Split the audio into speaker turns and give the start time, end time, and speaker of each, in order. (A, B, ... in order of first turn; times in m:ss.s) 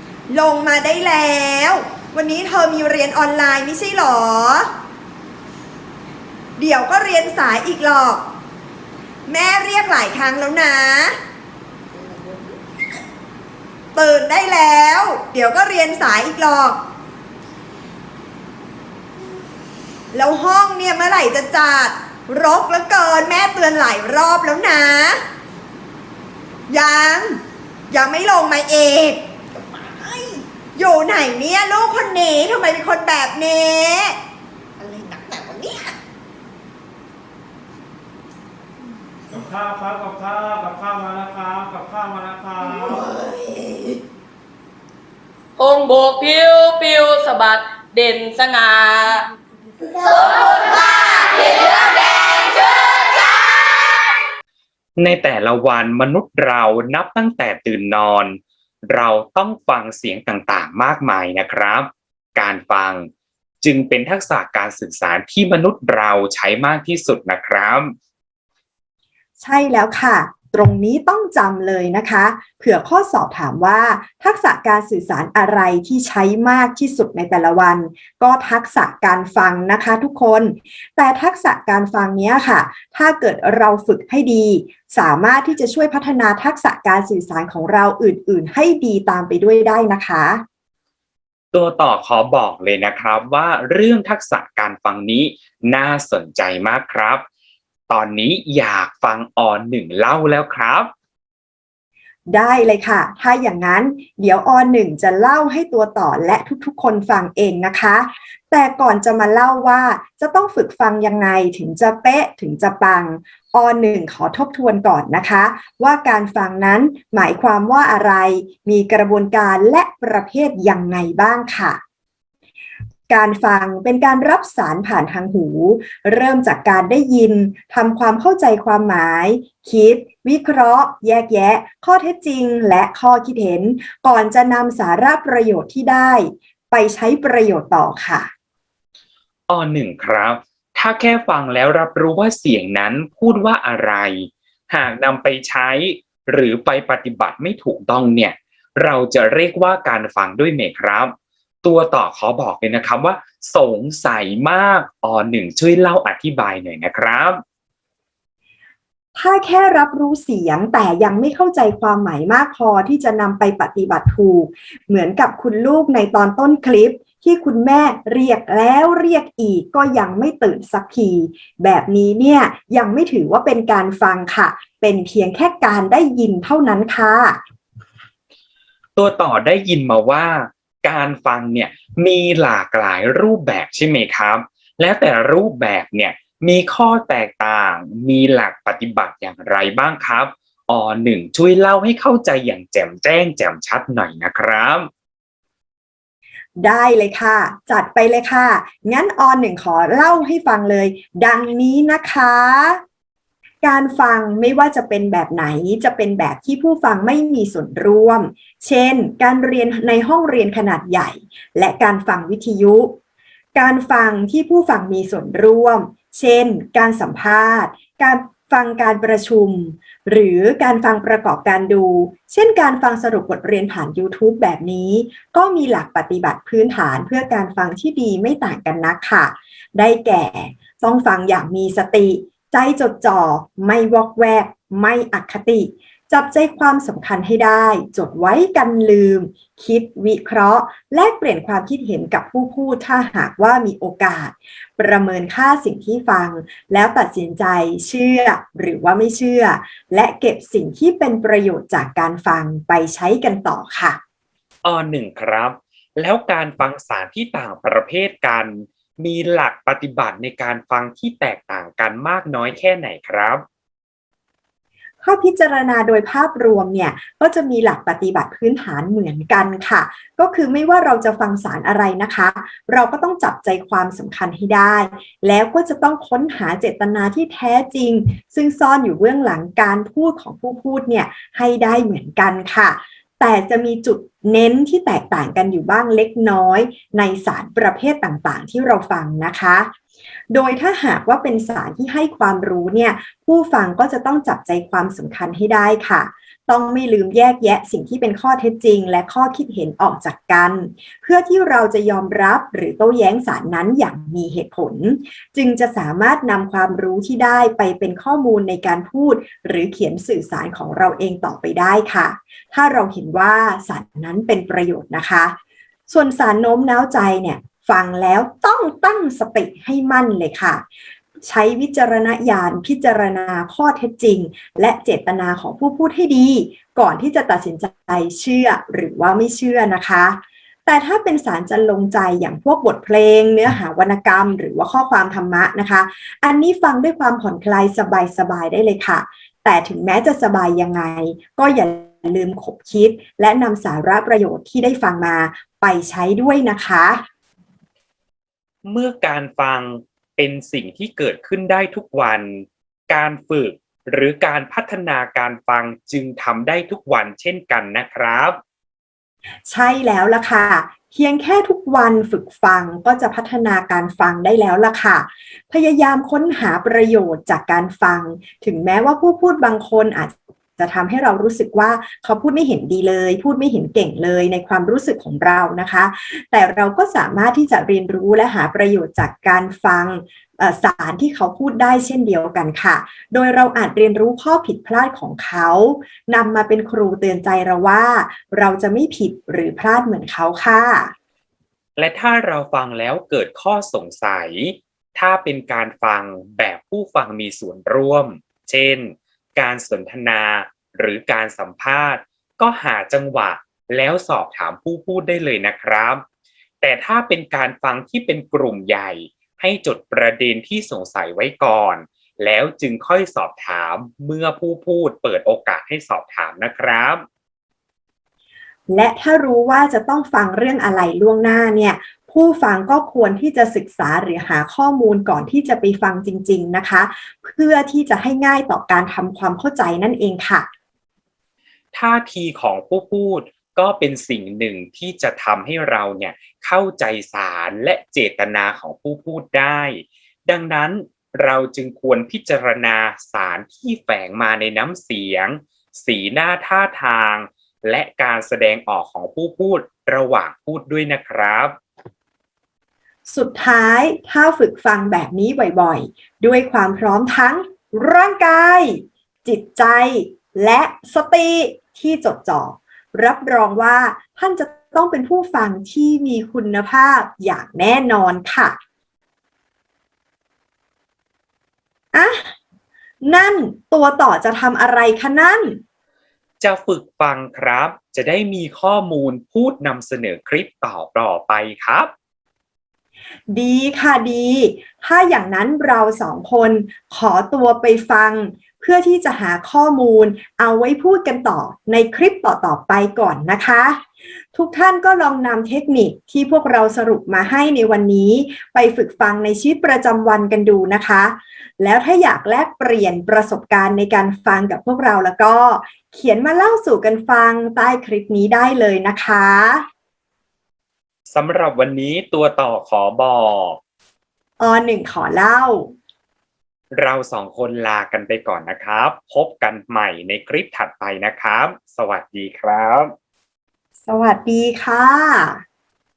0:00.3-0:04.7 A
0:06.6-0:08.2 A
0:09.2-0:11.1 A
0:12.0-0:12.4 B
0:13.9-0:16.8 A
0:20.1-0:25.2 A
0:26.7-0:29.2 A
0:30.0-0:30.2 A
0:30.8-0:34.2 A
0:34.8-0:35.9 B
0:39.4-0:42.6 C
0:42.7-0:43.4 B
0:45.6-0:49.3 D
0:50.0-0:54.1 D
0:55.0-1:03.1 E
1:03.6-1:07.9 E
1:09.4-1:30.4 A
1:31.5-1:37.2 E
1:37.9-1:40.9 E
1:42.3-2:01.8 A
2:03.1-2:18.3 A
2:19.5-2:31.1 E
2:31.6-2:37.4 E
2:39.1-2:57.4 A
2:59.0-3:14.9 E
3:16.6-3:22.8 A
3:23.6-3:33.0 A
3:33.5-4:14.0 A
4:14.6-4:23.4 E
4:25.0-4:49.7 A
4:50.3-5:15.3 A
5:15.9-5:20.6 A
5:21.2-5:47.0 A
5:48.6-5:58.4 E
5:59.5-6:30.9 A
6:31.8-6:46.0 E
6:46.6-6:57.0 E
6:58.7-7:10.5 A
7:11.7-7:31.6 E
7:33.1-7:48.6 A
7:51.9-7:52.3 A
7:53.0-7:55.6 A
7:56.4-8:01.9 E
8:03.3-8:13.8 A
8:14.3-8:29.6 A
8:31.1-8:33.6 E
8:34.4-8:35.7 A
8:36.7-8:42.9 E
8:43.8-8:45.4 A